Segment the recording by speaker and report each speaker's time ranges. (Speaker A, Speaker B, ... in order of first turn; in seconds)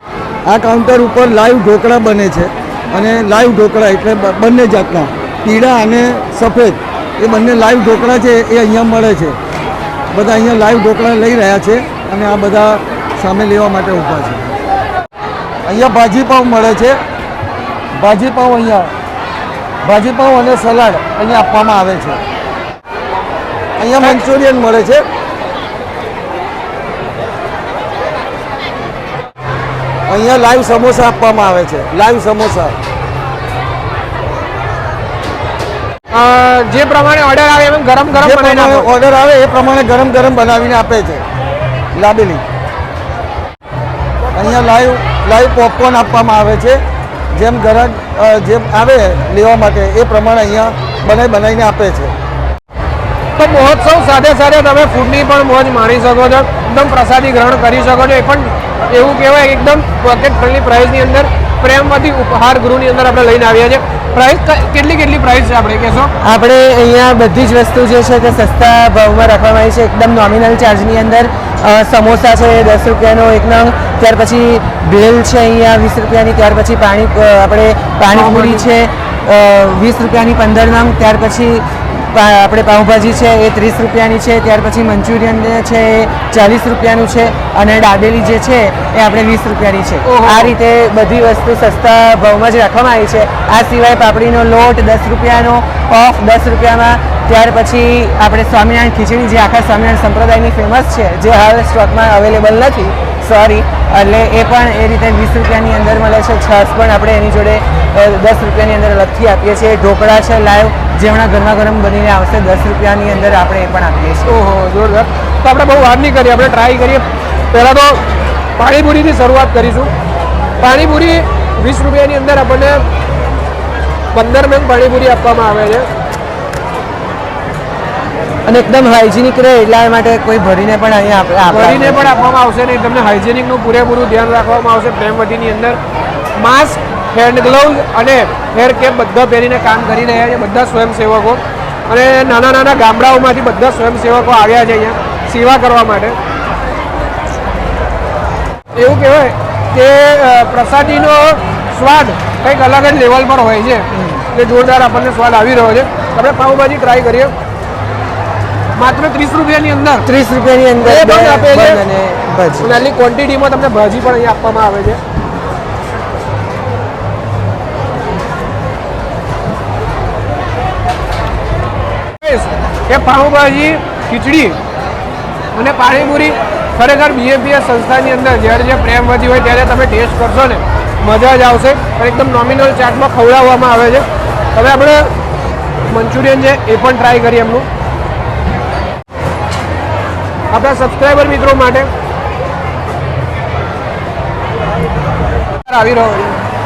Speaker A: 0.5-9.4, 10.1-14.6, 15.7-17.0, 18.0-18.9, 19.8-22.2, 23.8-25.0, 30.1-32.8, 38.1-41.2, 41.9-42.4, 44.4-46.8, 47.3-52.1
Speaker B: 36.1-38.9, 53.4-66.1, 78.1-78.7, 90.0-90.5, 114.3-118.0, 118.6-119.9, 120.6-122.8, 124.1-125.9, 131.5-135.8, 136.4-146.2, 148.8-157.3, 158.8-160.1, 160.8-161.8, 162.6-165.0, 172.2-174.6, 175.5-185.1, 185.9-187.7, 190.5-191.9, 195.7-196.4
Speaker C: 66.2-114.4, 128.5-132.2, 153.9-154.2, 160.0-162.8